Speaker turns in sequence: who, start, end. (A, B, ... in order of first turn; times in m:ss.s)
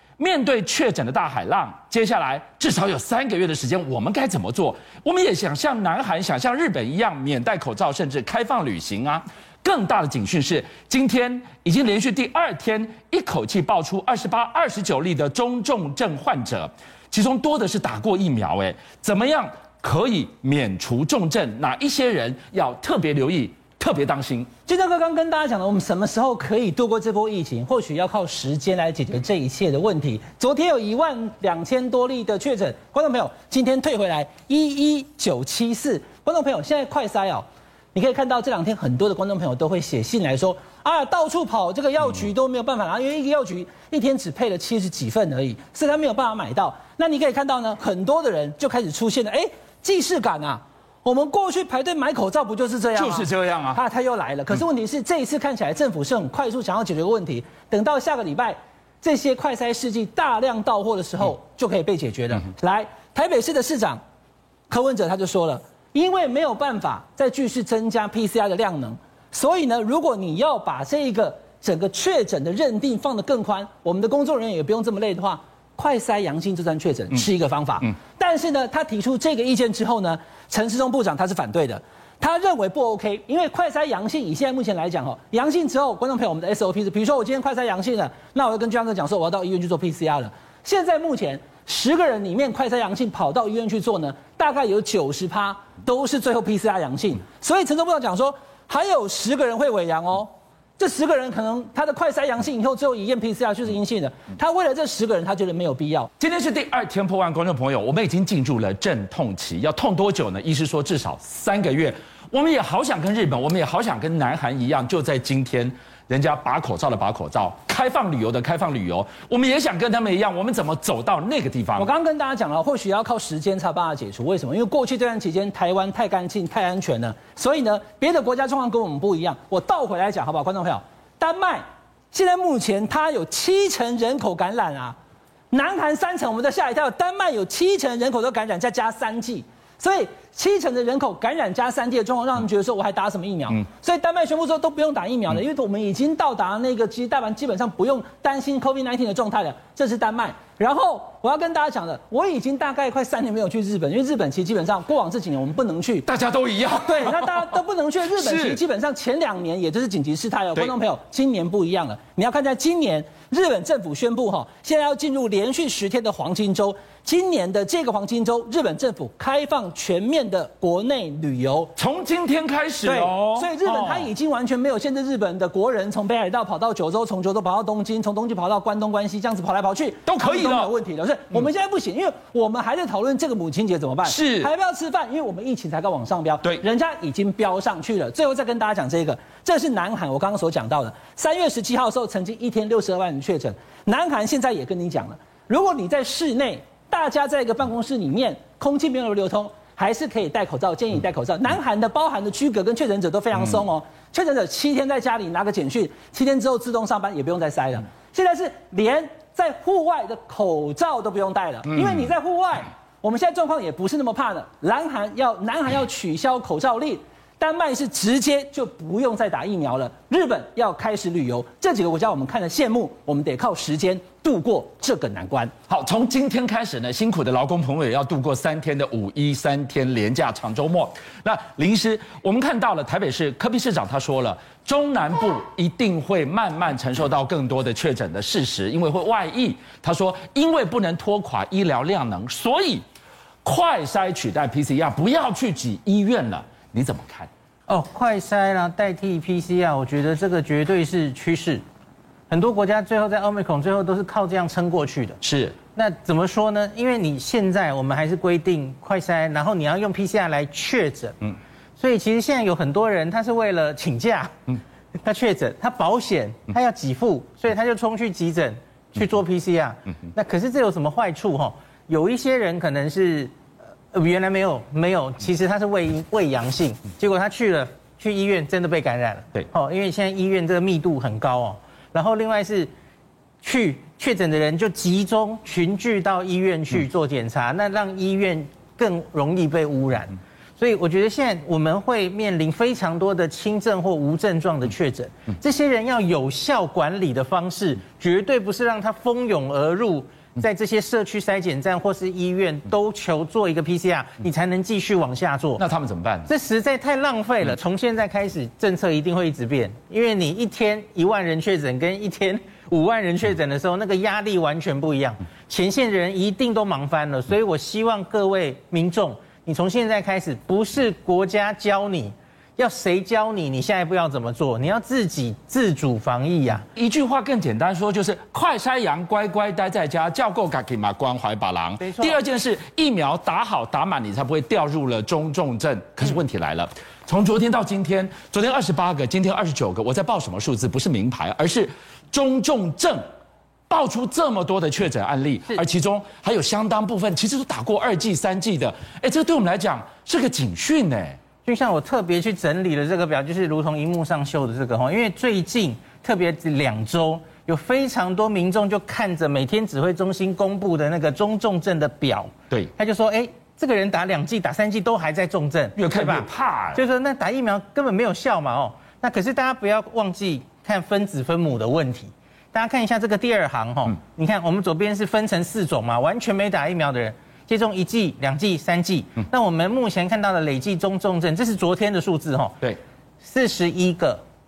0:00.2-0:24.5 A
0:24.7-1:04.0 B
0:52.9-0:53.8 A
1:04.7-1:46.1 B
1:46.2-2:01.9 A
2:01.8-2:15.0 B
2:15.5-2:36.0 B
2:36.0-2:37.6 A
2:36.8-2:51.7 B
2:38.2-2:38.6 A
2:51.8-2:54.1 A
2:52.8-3:45.5 B
3:00.0-3:00.7 A
3:04.0-3:04.5 A
3:45.7-4:02.8 A
4:03.4-4:07.3 A
4:07.7-4:11.6 C
4:12.3-4:15.2 C
4:15.2-4:15.6 A
4:15.7-4:33.3 C
4:33.9-4:42.7 C
4:43.4-5:05.6 C
5:05.6-5:06.3 A
5:06.3-5:26.6 C
5:26.7-5:43.0 A
5:31.8-5:32.2 C
5:43.7-5:51.2 A
5:51.4-6:22.6 C
6:05.8-6:06.8 A
6:23.2-6:24.2 C